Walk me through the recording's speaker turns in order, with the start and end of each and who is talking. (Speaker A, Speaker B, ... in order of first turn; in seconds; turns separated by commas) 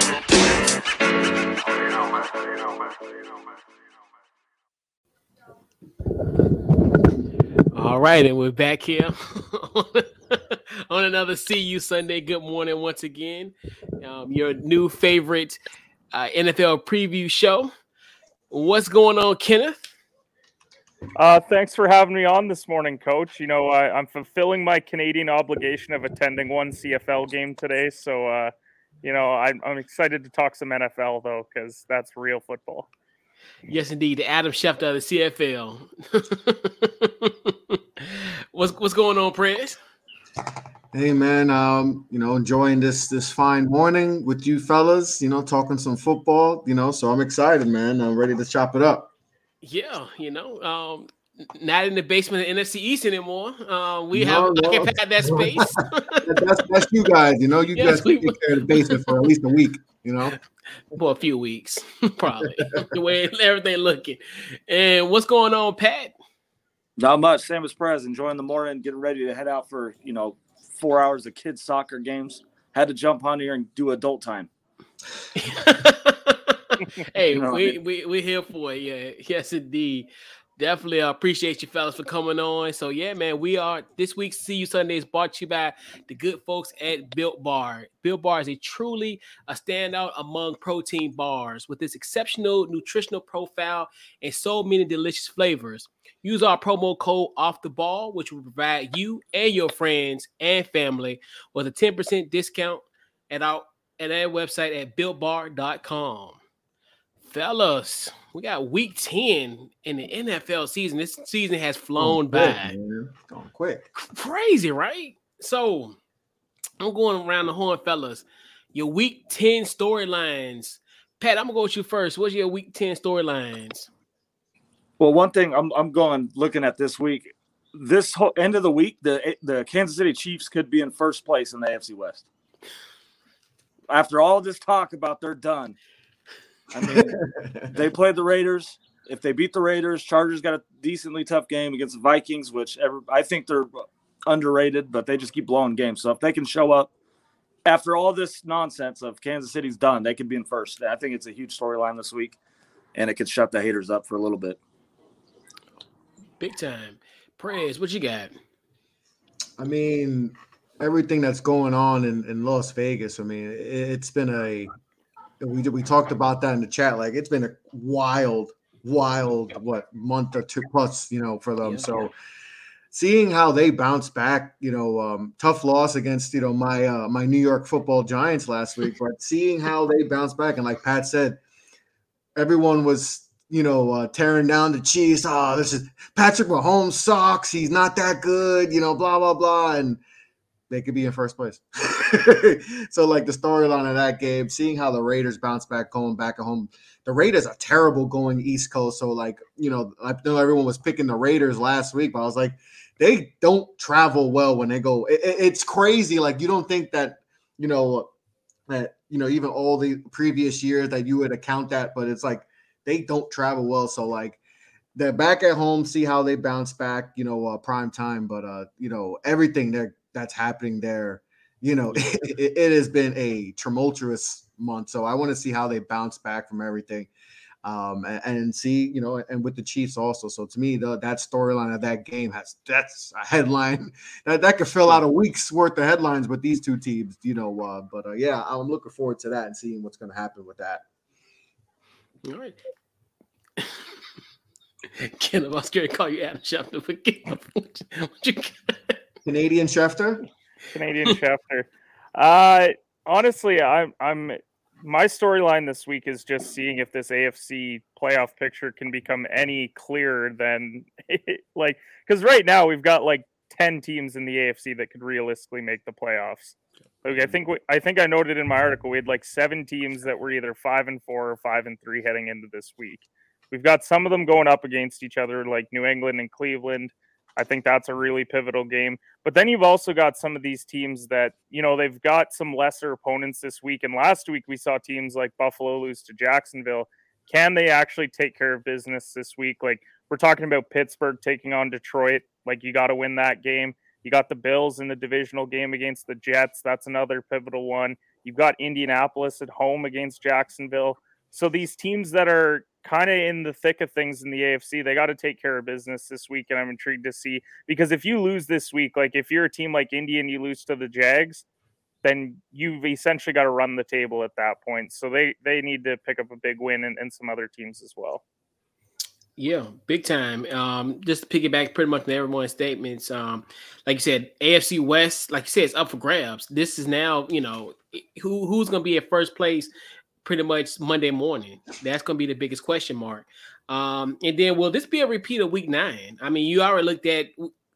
Speaker A: 7.7-15.6, Speaker A: 16.1-17.7, Speaker A: 18.5-19.9, Speaker B: 21.2-28.5, Speaker B: 29.0-32.9, Speaker A: 33.7-39.8, Speaker C: 40.9-49.1, Speaker A: 49.6-56.3, Speaker C: 54.1-60.4, Speaker A: 57.8-59.0, Speaker A: 60.9-66.2, Speaker D: 67.0-74.5, Speaker A: 75.4-106.4, Speaker D: 77.3-77.8, Speaker A: 107.3-112.7, Speaker C: 112.0-113.9, Speaker A: 114.0-116.0, Speaker A: 116.8-123.9, Speaker D: 125.0-132.2, Speaker D: 133.9-135.8, Speaker D: 136.7-137.2, Speaker C: 136.8-137.8, Speaker D: 137.7-146.9, Speaker D: 147.7-152.4, Speaker D: 152.9-154.6, Speaker A: 156.4-158.3, Speaker C: 159.6-164.7, Speaker C: 165.4-172.1, Speaker A: 171.6-172.1, Speaker C: 172.9-181.4, Speaker C: 182.4-190.0, Speaker C: 190.7-208.1, Speaker C: 208.7-214.4, Speaker C: 215.0-227.1, Speaker C: 227.6-240.8, Speaker A: 242.2-242.6, Speaker A: 243.6-243.8, Speaker A: 244.9-249.0, Speaker C: 249.2-250.2, Speaker B: 250.7-311.4, Speaker B: 312.0-318.2, Speaker A: 319.4-329.7, Speaker A: 330.2-337.5